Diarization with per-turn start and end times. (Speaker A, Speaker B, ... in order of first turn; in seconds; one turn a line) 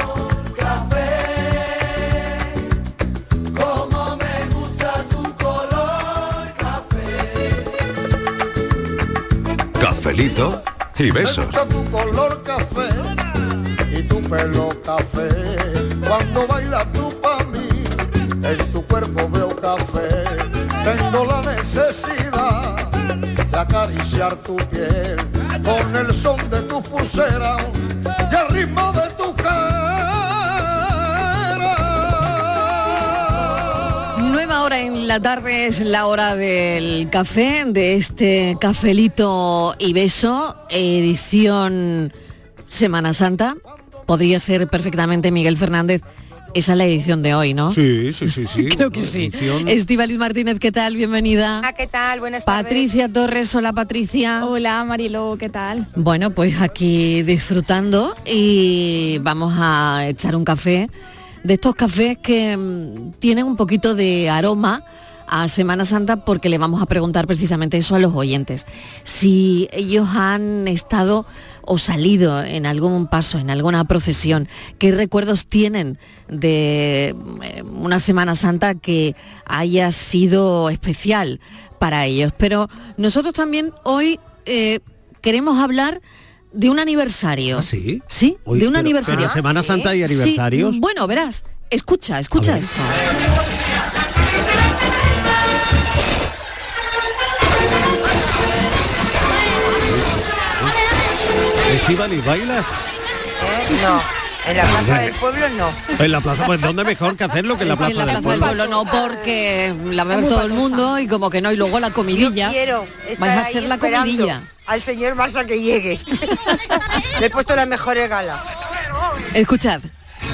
Speaker A: 11.1-13.1
Speaker A: 13.9-22.9
Speaker A: 23.5-27.7
Speaker A: 28.3-34.0
Speaker B: 34.1-42.1
Speaker B: 42.7-46.0
Speaker B: 46.5-47.8
Speaker C: 47.7-49.8
Speaker B: 48.5-51.7
Speaker D: 51.6-52.9
Speaker B: 52.5-54.5
Speaker E: 54.4-55.9
Speaker B: 56.0-60.9
Speaker B: 61.4-86.0
Speaker B: 86.5-93.0
Speaker C: 87.5-90.8
Speaker D: 89.1-89.8
Speaker C: 92.3-92.7
Speaker C: 99.8-100.7
Speaker C: 101.7-102.7
Speaker D: 103.4-106.0
Speaker C: 104.6-105.1
Speaker C: 106.0-108.6
Speaker B: 107.6-112.6
Speaker E: 107.8-109.1
Speaker D: 110.1-110.7
Speaker D: 112.1-118.5
Speaker B: 113.2-114.5
Speaker B: 119.3-119.9